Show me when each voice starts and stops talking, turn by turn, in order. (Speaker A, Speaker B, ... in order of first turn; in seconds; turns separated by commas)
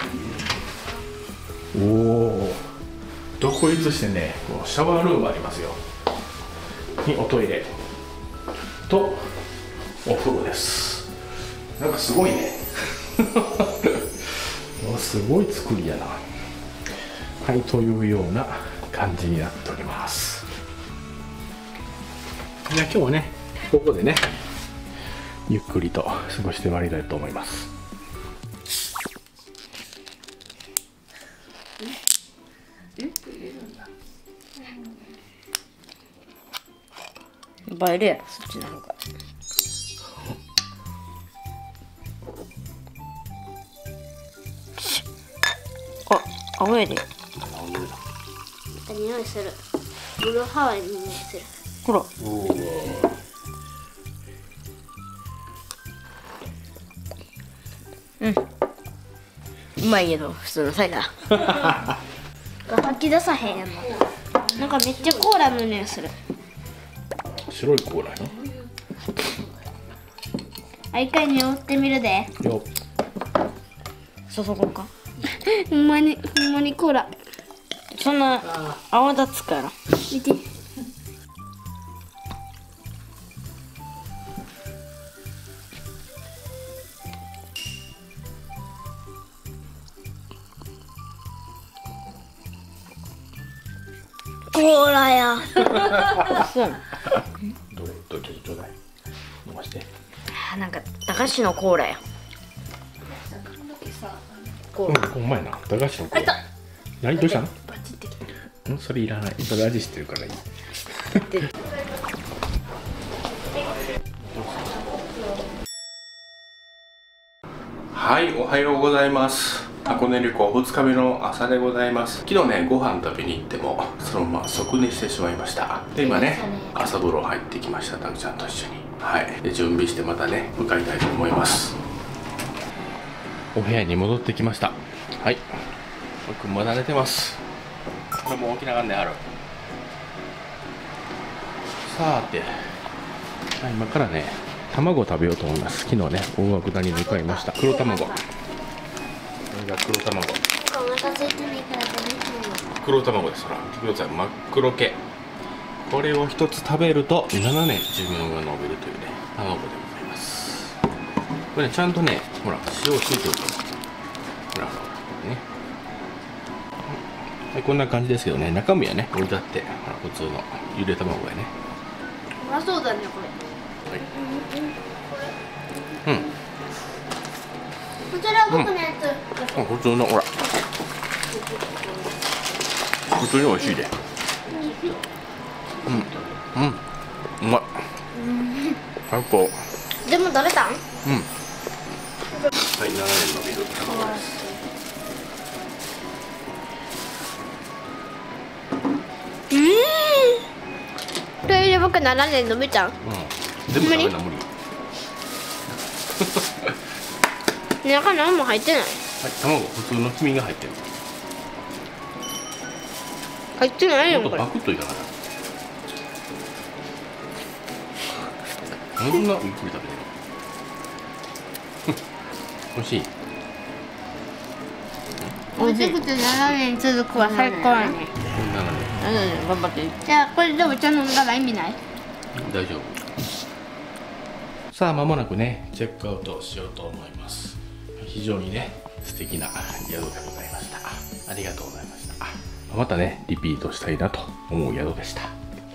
Speaker A: 1.7-2.7, Speaker A: 3.4-5.8, Speaker A: 7.0-7.7, Speaker A: 8.8-9.4, Speaker A: 10.0-11.1, Speaker A: 11.8-16.2, Speaker A: 17.4-20.5, Speaker A: 22.6-24.3, Speaker A: 25.5-27.7, Speaker B: 37.7-39.0, Speaker B: 46.1-47.0, Speaker A: 47.4-48.0, Speaker C: 48.8-49.6, Speaker C: 50.2-51.5, Speaker A: 52.2-53.1, Speaker B: 59.8-61.5, Speaker C: 62.7-66.1, Speaker A: 67.2-68.4, Speaker C: 70.9-72.3, Speaker A: 72.4-72.7, Speaker B: 74.3-74.9, Speaker C: 75.3-77.1, Speaker B: 77.9-79.7, Speaker C: 80.1-80.4, Speaker B: 94.5-96.8, Speaker A: 97.7-98.7, Speaker A: 99.4-99.9, Speaker B: 100.3-102.0, Speaker C: 103.2-104.2, Speaker A: 104.8-106.4, Speaker A: 107.0-107.5, Speaker C: 107.7-108.1, Speaker A: 108.7-110.4, Speaker A: 111.0-111.4, Speaker A: 114.2-114.8, Speaker A: 117.9-131.8, Speaker C: 126.0-126.7, Speaker A: 133.5-135.6, Speaker A: 136.2-137.4, Speaker A: 138.2-139.3, Speaker A: 141.8-142.8, Speaker A: 143.6-148.2, Speaker C: 146.9-148.2, Speaker A: 149.5-150.4, Speaker C: 150.6-152.6, Speaker A: 152.8-155.0, Speaker A: 155.8-160.8, Speaker A: 161.5-163.7, Speaker A: 164.5-165.4, Speaker A: 166.9-171.5, Speaker C: 172.4-173.3, Speaker C: 174.0-175.3, Speaker C: 178.1-179.6, Speaker A: 178.5-178.7, Speaker A: 179.5-180.4, Speaker C: 181.3-182.1, Speaker A: 183.1-183.9, Speaker C: 184.5-185.0, Speaker A: 185.8-186.8, Speaker A: 187.4-187.8, Speaker C: 188.2-188.8, Speaker A: 189.1-189.7, Speaker C: 190.0-190.8, Speaker A: 191.0-191.3, Speaker A: 192.6-194.4, Speaker C: 193.8-194.6, Speaker C: 199.5-200.4, Speaker C: 201.4-202.9, Speaker A: 203.0-204.5, Speaker C: 203.7-204.1, Speaker A: 206.1-206.8, Speaker C: 207.8-209.0, Speaker A: 209.2-210.8, Speaker C: 213.6-214.5, Speaker A: 214.1-215.1, Speaker A: 219.0-220.1, Speaker A: 222.7-223.1, Speaker C: 225.6-228.1, Speaker B: 225.6-226.2, Speaker B: 227.1-228.0, Speaker A: 228.2-229.4, Speaker B: 229.0-230.0, Speaker C: 230.0-231.8, Speaker A: 232.3-233.1, Speaker A: 234.7-245.3